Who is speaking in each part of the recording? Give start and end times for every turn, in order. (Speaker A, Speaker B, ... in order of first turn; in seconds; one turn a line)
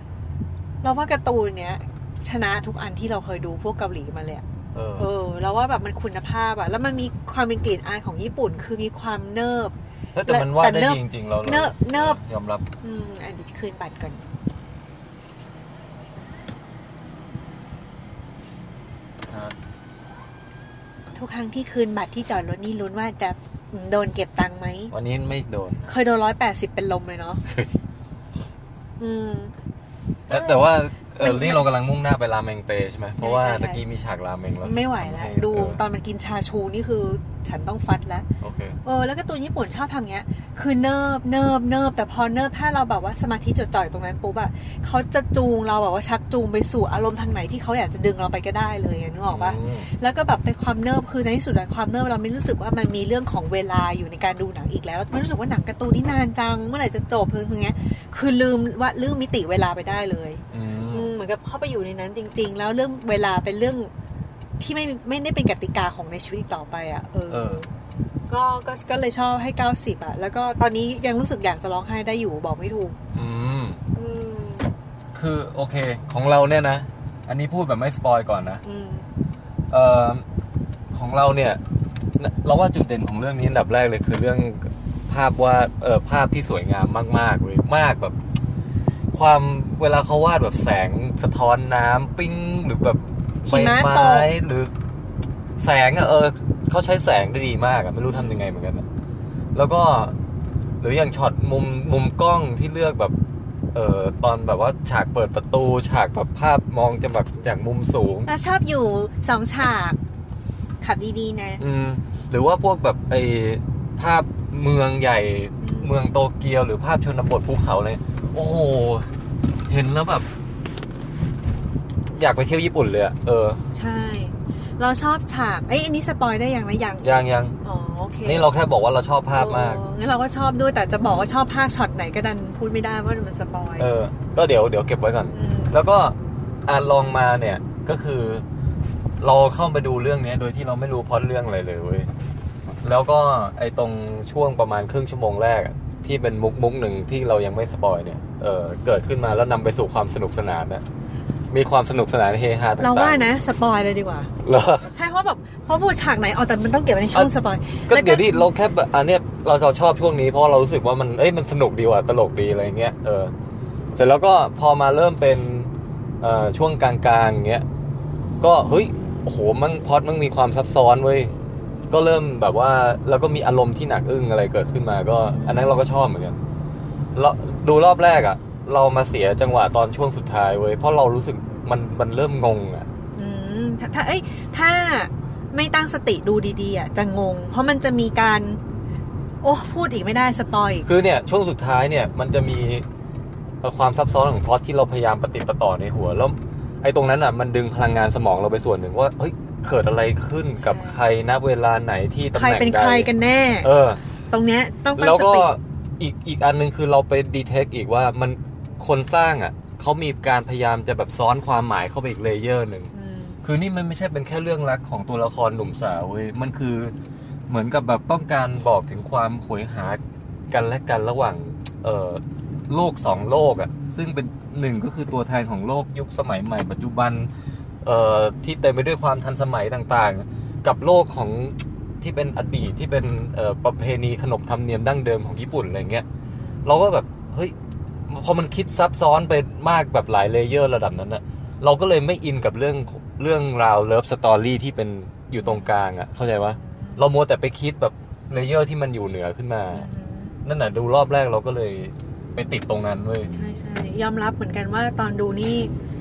Speaker A: 0.8-4.4
Speaker B: 4.7-5.1
Speaker A: 5.0-9.7
Speaker B: 10.1-12.6
Speaker A: 10.2-12.2
Speaker A: 12.8-14.2
Speaker B: 19.3-19.6
Speaker A: 21.1-24.9
Speaker B: 24.9-25.9
Speaker A: 25.9-27.4
Speaker A: 29.0-29.5
Speaker A: 30.3-31.7
Speaker B: 30.3-35.8
Speaker A: 33.2-33.8
Speaker A: 34.6-38.3
Speaker B: 38.4-38.8
Speaker A: 38.8-63.9
Speaker B: 49.3-49.9
Speaker B: 60.5-61.1
Speaker A: 64.6-67.7
Speaker B: 67.3-67.6
Speaker A: 68.3-73.0
Speaker B: 73.1-73.8
Speaker A: 73.9-74.7
Speaker B: 75.1-78.6
Speaker A: 78.6-79.0
Speaker B: 79.7-80.2
Speaker B: 80.9-81.6
Speaker B: 82.2-88.2
Speaker B: 89.1-94.7
Speaker A: 93.4-94.3
Speaker B: 95.6-98.8
Speaker A: 98.1-98.4
Speaker B: 99.5-100.1
Speaker B: 100.8-103.2
Speaker B: 103.7-108.3
Speaker A: 108.3-110.0
Speaker A: 110.8-111.6
Speaker B: 111.6-119.1
Speaker A: 115.6-115.9
Speaker B: 119.7-120.3
Speaker B: 122.1-123.6
Speaker A: 123.7-128.5
Speaker B: 127.0-127.5
Speaker B: 128.2-129.8
Speaker A: 129.3-133.9
Speaker B: 133.8-138.4
Speaker A: 135.3-135.8
Speaker B: 139.2-142.1
Speaker B: 142.8-150.8
Speaker B: 151.5-153.3
Speaker A: 152.8-154.3
Speaker B: 154.4-154.9
Speaker A: 154.9-158.5
Speaker B: 157.9-163.3
Speaker B: 163.9-165.7
Speaker B: 166.2-167.6
Speaker B: 168.4-171.3
Speaker B: 171.9-176.4
Speaker B: 177.1-182.9
Speaker A: 183.2-188.6
Speaker A: 189.4-190.9
Speaker B: 190.8-192.8
Speaker B: 193.6-203.1
Speaker A: 200.7-200.9
Speaker A: 202.3-203.7
Speaker B: 203.6-204.0
Speaker A: 204.3-205.5
Speaker B: 204.9-212.9
Speaker A: 212.9-213.4
Speaker B: 213.4-216.9
Speaker B: 217.5-227.3
Speaker B: 227.8-236.0
Speaker A: 236.4-236.7
Speaker B: 236.6-237.5
Speaker B: 238.1-249.8
Speaker A: 245.4-245.7
Speaker A: 246.6-247.0
Speaker A: 249.7-250.3
Speaker B: 250.4-253.3
Speaker A: 253.3-255.7